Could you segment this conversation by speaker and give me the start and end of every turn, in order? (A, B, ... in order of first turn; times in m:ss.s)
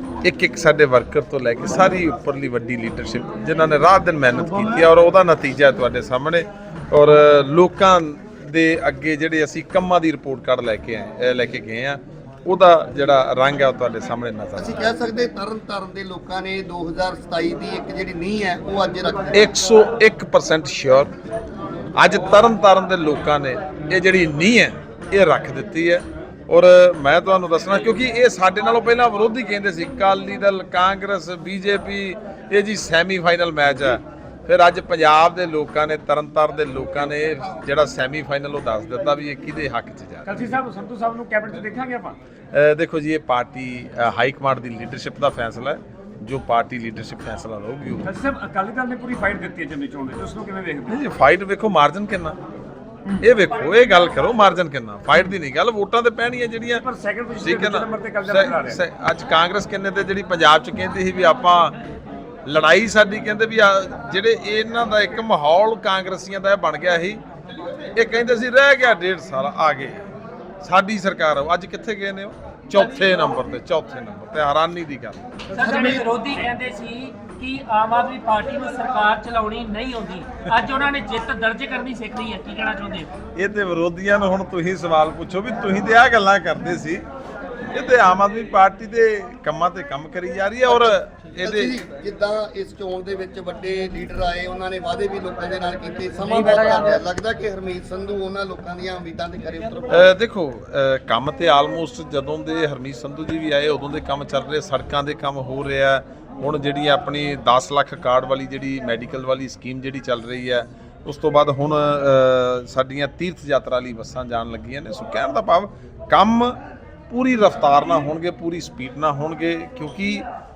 0:00.2-0:14.9 A
0:14.5-0:19.5 B
0:19.3-0:21.1 A
0:21.9-0:40.6 A
0:40.2-0:42.2 C
0:42.5-0:48.1 A
0:48.0-0:51.0 C
0:50.9-0:52.4 A
0:53.2-0:56.8 A
0:56.8-0:58.8 C
0:57.4-1:01.7 A
1:02.4-1:07.2 A
1:07.9-1:10.0 A
1:10.6-1:15.2 A
1:15.5-1:16.3 B
1:15.5-1:23.1 D
1:23.4-1:27.0 A
1:27.7-1:31.8 A
1:30.7-1:40.1 B
1:39.9-1:56.6 A
1:57.1-2:00.2 A